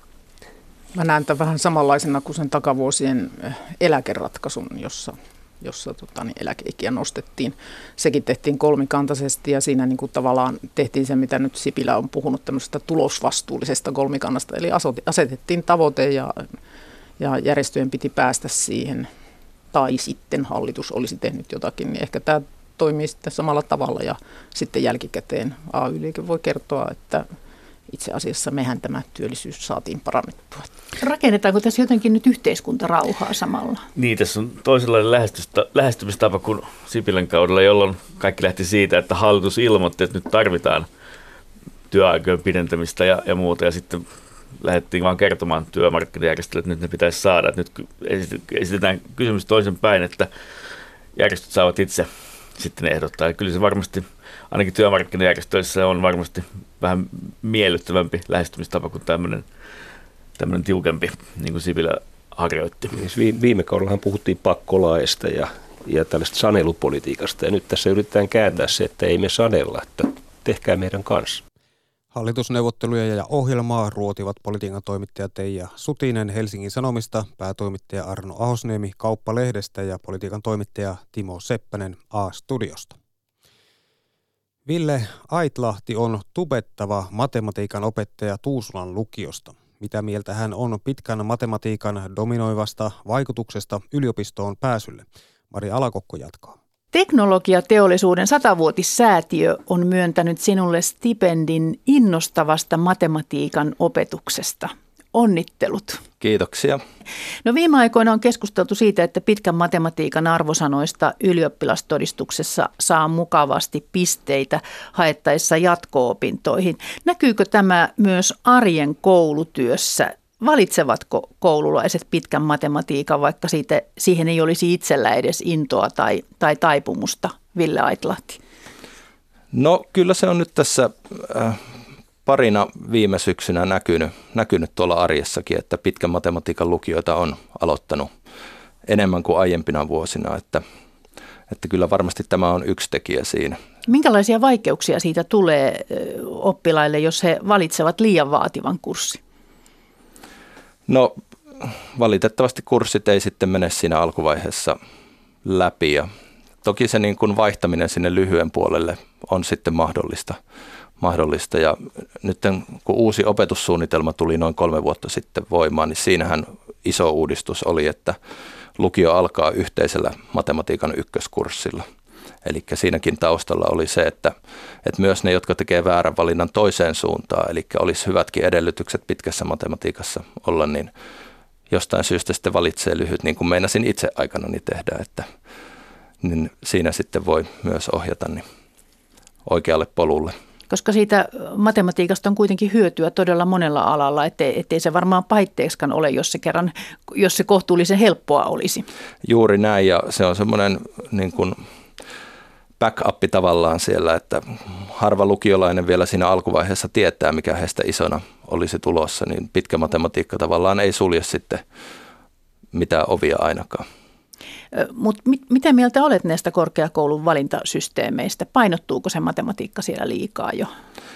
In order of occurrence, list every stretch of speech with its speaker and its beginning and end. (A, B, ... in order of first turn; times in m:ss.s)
0:01.0-0:16.6 A
0:17.2-0:19.1 A
0:19.7-0:27.3 A
0:27.9-0:30.7 A
0:31.0-0:33.8 B
0:34.0-0:40.9 C
0:41.9-0:50.3 C
0:51.2-0:59.5 C
1:00.4-1:03.0 C
1:02.9-1:11.4 D
1:12.1-1:23.0 E
1:24.7-1:36.6 E
1:36.9-1:46.0 B
1:46.2-1:46.8 F
1:47.4-2:08.4 B
2:09.5-2:11.6 F
2:12.2-2:18.1 F
2:18.9-2:20.6 F
2:21.5-2:23.6 F
2:23.9-2:29.2 B
2:30.9-2:34.8 F
2:35.4-2:36.1 F
2:36.6-2:40.4 F
2:41.0-2:48.2 F
2:48.8-2:51.8 F
2:52.4-3:00.9 F
3:01.7-3:05.3 F
3:06.2-3:08.4 F
3:09.4-3:10.4 F
3:10.7-3:18.9 B
3:19.2-3:21.6 F
3:22.8-3:31.6 F
3:32.7-3:33.8 F
3:34.7-3:40.7 B